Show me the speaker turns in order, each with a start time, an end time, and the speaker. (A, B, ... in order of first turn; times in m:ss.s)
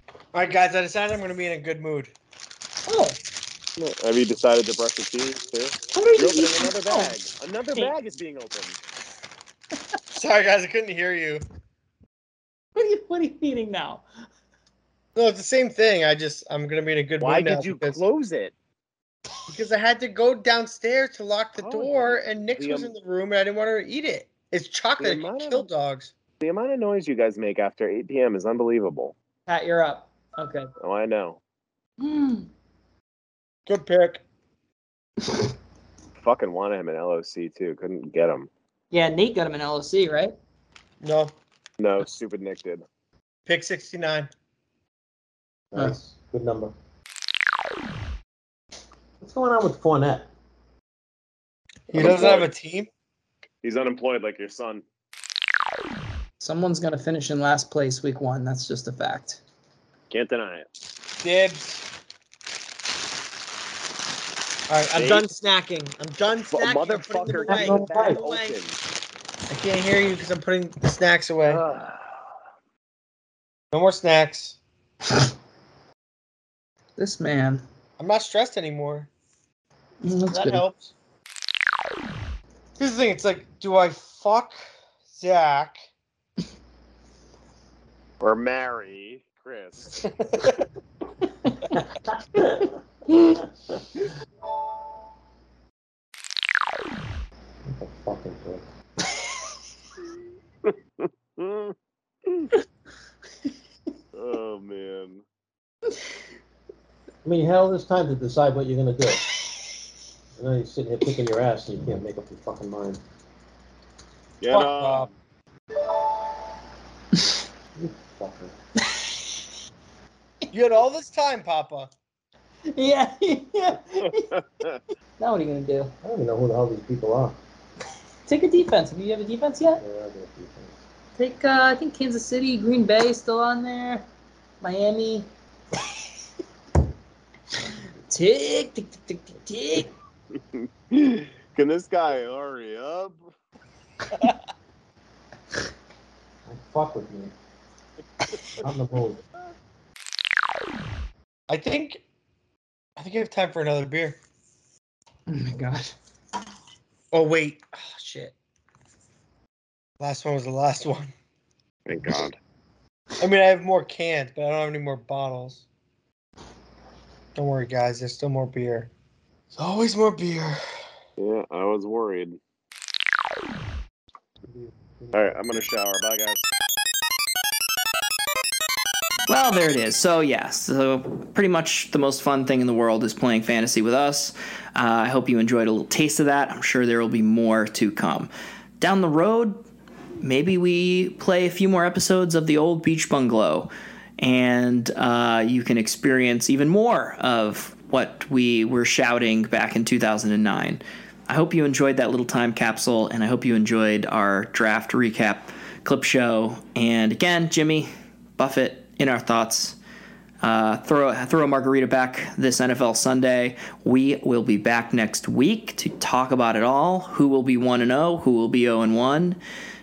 0:00.3-0:02.1 A
0:02.8-0:03.2 B
0:03.8-0:08.8 C
0:05.9-0:07.1 B
0:10.1-0:11.4 A
0:12.7-0:14.0 B
0:15.1-0:18.0 A
0:17.2-0:18.5 C
0:19.5-0:26.1 A
0:21.6-0:23.0 C
0:25.0-0:25.7 C
0:26.4-0:29.1 C
0:29.5-0:30.7 B
0:30.8-0:31.4 C
0:32.0-0:32.5 B
0:33.7-0:34.2 A
0:36.2-0:38.5 C
0:38.9-0:40.4 B
0:41.0-0:41.3 A
0:41.8-0:42.8 C
0:43.4-0:44.3 A
0:45.7-0:46.7 D
0:49.2-0:50.3 D
0:51.9-0:52.9 A
0:51.9-0:52.5 C
0:53.6-0:54.8 C
0:56.4-0:59.4 B
1:00.1-1:00.7 C
1:01.2-1:01.8 A
1:04.7-1:08.6 A
1:04.9-1:05.3 C
1:06.5-1:08.8 C
1:07.3-1:08.2 D
1:09.5-1:11.6 A
1:11.4-1:12.2 C
1:13.7-1:14.6 A
1:17.0-1:17.6 B
1:18.0-1:19.1 A
1:20.0-1:20.7 B
1:20.3-1:20.9 A
1:22.8-1:25.9 A
1:28.2-1:30.0 C
1:32.3-1:32.6 D
1:37.6-1:38.6 D
1:40.7-1:41.7 C
1:44.1-1:45.2 C
1:47.2-1:49.2 D
1:50.4-1:53.0 D
1:54.4-1:55.1 C
1:54.5-1:55.1 A
1:57.7-1:58.5 D
2:00.5-2:01.9 A
2:02.7-2:04.2 B
2:04.0-2:04.8 C
2:05.2-2:05.9 B
2:06.0-2:07.4 D
2:08.2-2:09.8 B
2:09.8-2:10.8 D
2:11.2-2:14.0 B
2:14.6-2:15.3 B
2:18.1-2:19.9 B
2:20.5-2:23.3 C
2:26.4-2:27.3 D
2:28.6-2:29.2 D
2:31.5-2:32.0 A
2:33.0-2:34.2 A
2:35.3-2:35.9 B
2:37.1-2:38.3 A
2:40.0-2:41.1 A
2:41.9-2:42.4 C
2:43.2-2:45.6 A
2:47.3-2:48.9 A
2:49.5-2:50.6 A
2:51.2-2:52.4 C
2:54.4-2:55.6 D
2:55.1-2:56.5 C
2:59.3-3:09.6 E
3:10.2-3:29.8 E
3:30.4-3:39.4 E